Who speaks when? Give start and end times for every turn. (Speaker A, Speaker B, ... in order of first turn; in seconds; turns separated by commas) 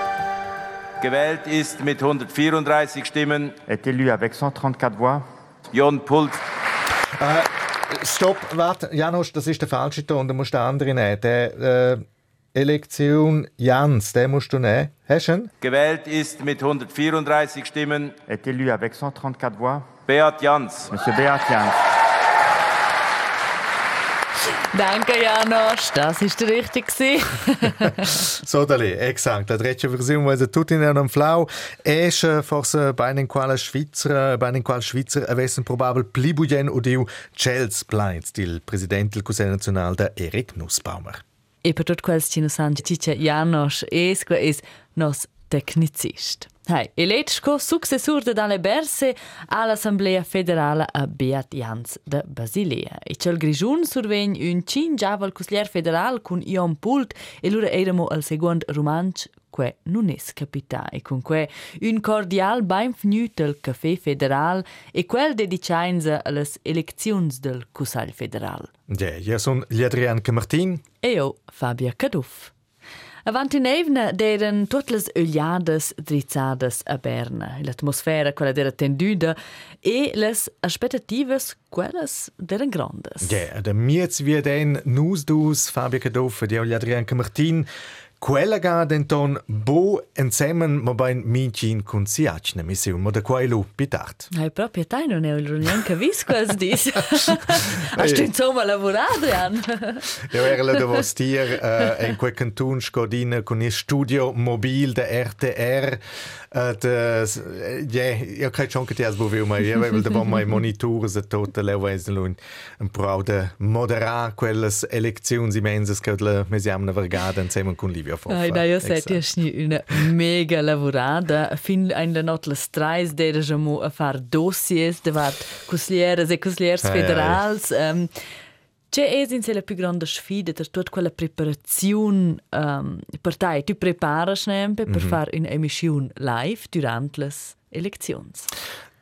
Speaker A: 1.0-3.6, Speaker B: 3.6-5.2, Speaker A: 5.7-6.4, Speaker C: 7.2-15.5, Speaker A: 15.6-18.2, Speaker B: 18.2-19.9, Speaker A: 20.1-20.9, Speaker B: 20.9-21.8, Speaker D: 24.7-28.2, Speaker C: 28.3-41.2, Speaker D: 41.6-68.7, Speaker C: 68.9-70.8, Speaker D: 71.0-72.5, Speaker D: 73.2-83.4, Speaker C: 83.2-87.7, Speaker C: 88.2-94.3, Speaker D: 94.3-100.2, Speaker C: 98.0-98.3, Speaker C: 100.2-119.2, Speaker D: 118.3-128.1, Speaker C: 126.8-127.4, Speaker D: 128.9-138.5, Speaker C: 134.9-135.2